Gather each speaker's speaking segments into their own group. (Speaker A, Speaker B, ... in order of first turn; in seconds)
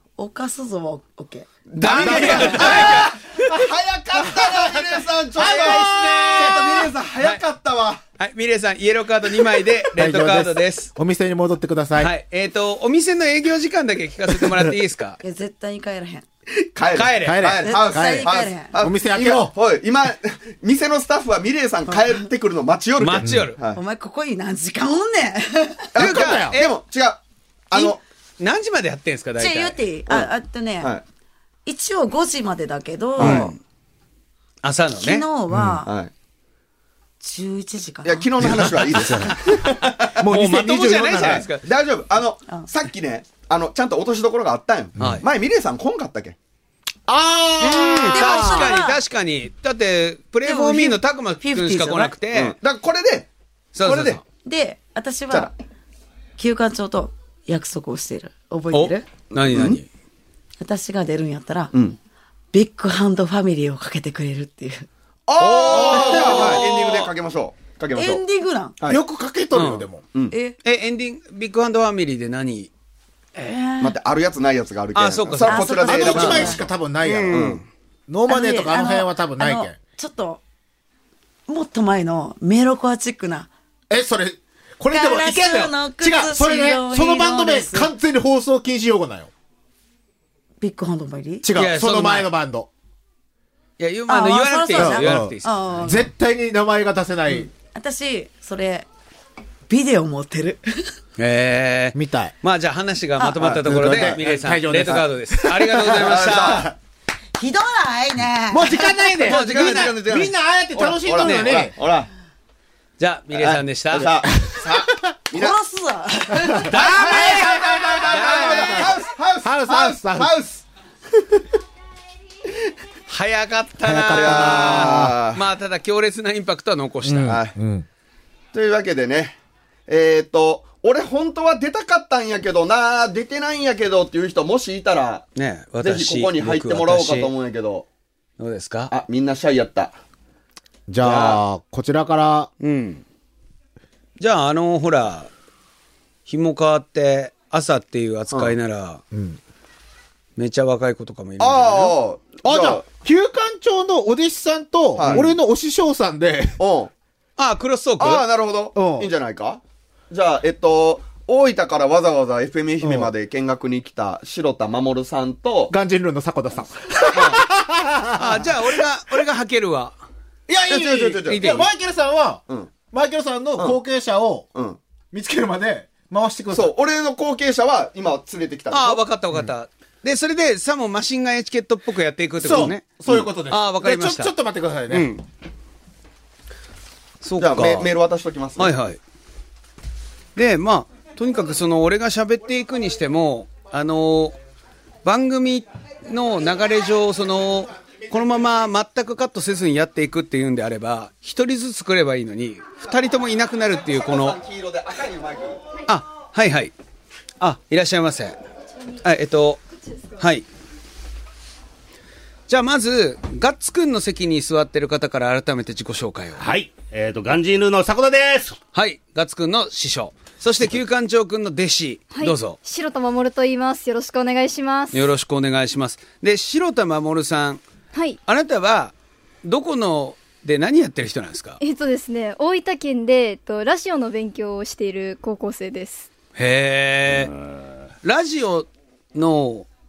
Speaker A: 0.2-1.5, 15.2-16.3, 17.6-18.7, 23.7-25.9, 29.4-30.9, 31.7-33.5, 35.0-35.9, 37.2-38.3, 48.1-49.0, 50.4-52.1, 54.4-55.5, 56.4-59.1, 60.6-61.7, 62.5-64.9, 68.0-68.8, 70.3-70.6, 73.4-74.0, 75.4-76.6, 78.3-80.4, 81.5-83.5, 84.9-87.9, 90.6-91.5, 94.1-96.1, 97.3-98.9, 99.7-100.9, 107.4-109.0, 115.3-116.8
Speaker B: 1.7-8.0, 16.6-23.8, 25.9-28.0, 33.2-33.5, 35.9-36.1, 38.0-40.2, 41.2-46.4, 52.3-53.3, 53.9-54.2, 59.3-59.8, 65.3-68.2, 73.8-76.7, 77.3-77.6, 103.4-104.2, 106.0-106.7, 109.2-112.1, 113.3-115.6, 116.7-120.6, 124.1-125.4, 127.3-127.5, 128.5-135.2, 135.8-137.9, 138.9-139.9, 141.0-141.4, 151.4-152.8, 154.9-155.3, 156.6-156.9, 158.0-165.7, 170.6-171.6, 176.5-179.0, 182.6-183.3, 187.4-188.7, 203.8-205.6
Speaker C: 1.8-3.1, 5.4-7.4, 8.2-10.9, 12.0-15.2, 16.9-17.5, 23.0-23.6, 26.0-26.7, 27.7-29.8, 33.2-33.6, 34.6-35.2, 38.6-39.2, 40.2-41.6, 45.0-45.3, 47.6-52.6, 53.8-54.2, 58.7-59.9, 65.4-67.1, 69.5-69.9, 70.6-72.7, 75.0-76.5, 77.0-77.7, 91.6-92.3, 93.8-95.6, 101.2-106.7, 109.2-110.1, 111.2-111.6, 113.0-114.2, 116.7-117.6, 118.1-118.9, 123.1-127.4, 135.4-137.3, 138.4-138.9, 142.6-143.0, 144.2-145.3, 146.3-149.0, 150.4-152.0, 157.4-158.3, 168.2-170.0, 171.3-171.7, 178.7-184.3, 184.9-185.2, 187.2-187.9, 188.6-189.0, 190.4-194.4, 195.0-204.4, 205.9-206.7, 207.4-208.4, 209.0-209.6, 210.2-210.5, 212.5-216.5, 218.7-222.6, 224.9-227.6, 228.3-228.9, 229.4-231.6, 236.4-237.3, 238.0-239.7
Speaker D: 1.9-3.6, 4.1-6.9, 9.9-12.1, 17.2-19.5, 26.0-26.6, 35.5-35.8, 38.4-41.5, 45.0-45.2, 47.1-48.8, 65.7-66.6, 68.9-70.0, 75.8-77.6, 78.1-79.8, 83.9-89.3, 91.4-92.7, 94.8-97.5, 101.9-102.3, 103.7-106.7, 108.5-111.8, 114.4-114.9, 116.4-120.3, 123.8-125.2, 127.0-127.9, 140.9-142.5, 149.1-149.4, 152.4-156.6, 158.8-159.1, 162.8-163.1, 165.7-168.6, 170.5-174.5, 175.1-176.7, 182.4-185.1
Speaker E: 216.4-218.6, 237.1-237.7
Speaker F: 222.1-225.1, 227.9-228.2, 231.6-236.1